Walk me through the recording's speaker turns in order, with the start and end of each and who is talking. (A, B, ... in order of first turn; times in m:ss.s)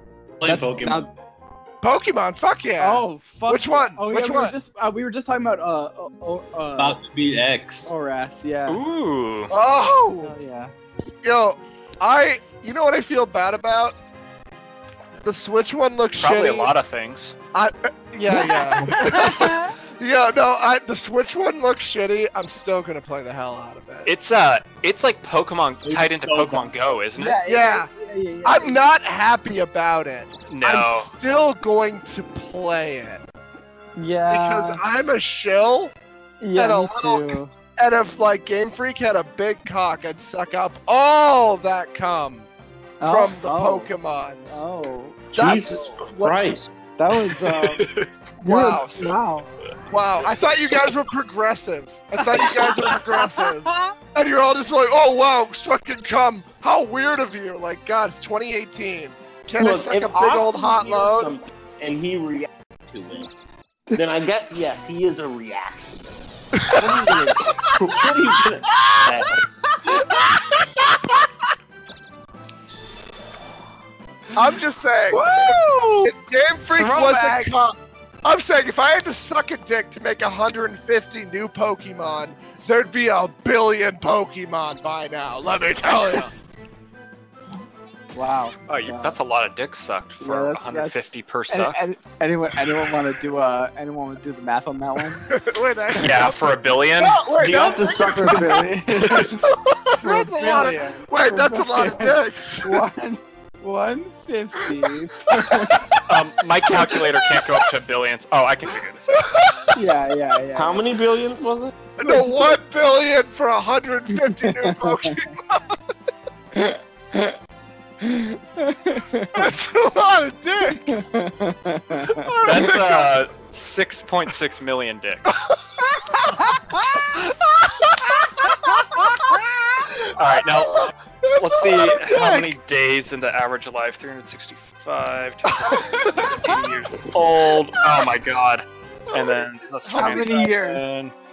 0:00.4-0:01.1 A
0:00.4-0:01.1 B
0:01.8-0:04.6 C
0:02.8-0:07.0 B
0:06.8-0:07.9 A
0:07.8-0:08.8 B
0:08.7-0:09.5 D
0:09.5-0:10.3 C
0:10.2-0:10.7 B
0:11.2-0:14.0 C
0:15.2-0:16.7 C
0:16.2-0:17.4 D
0:17.5-0:24.1 C
0:18.4-0:19.7 B
0:24.0-0:27.4 D
0:25.8-0:26.7 A
0:27.1-0:28.8 B
0:27.4-0:27.9 C
0:28.4-0:33.2 C
0:30.5-0:31.1 D
0:34.0-0:34.8 B
0:34.3-0:35.9 C
0:36.4-0:37.5 B
0:36.6-0:42.5 C
0:43.0-0:44.6 C
0:43.0-0:45.2 B
0:45.3-0:46.4 C
0:45.3-0:46.7 E
0:47.0-0:47.9 B
0:47.4-0:48.1 D
0:48.4-0:49.5 B
0:48.4-0:49.2 C
0:49.9-1:01.4 C
0:52.4-0:53.0 D
0:59.6-1:03.3 E
1:03.9-1:09.4 E
1:09.8-1:10.4 B
1:14.3-1:26.3 C
1:15.1-1:16.1 B
1:16.7-1:17.5 B
1:28.1-1:29.2 B
1:28.7-1:31.8 D
1:30.2-1:35.3 B
1:35.3-1:42.8 C
1:36.0-1:37.3 D
1:37.3-1:39.0 E
1:37.9-1:39.3 B
1:40.0-1:45.8 B
1:45.5-1:46.0 C
1:46.1-1:49.3 D
1:46.7-1:47.6 C
1:49.3-1:49.7 C
1:49.7-1:50.9 B
1:50.6-1:51.8 E
1:52.0-1:55.8 C
1:52.0-1:52.5 B
1:54.1-1:55.2 B
1:56.6-1:57.3 B
1:58.0-1:59.4 B
1:59.3-2:01.0 C
2:00.9-2:02.4 B
2:02.0-2:03.2 C
2:02.4-2:05.4 D
2:06.2-2:12.6 C
2:10.1-2:21.1 D
2:15.6-2:16.5 C
2:19.1-2:20.5 C
2:20.0-2:20.8 B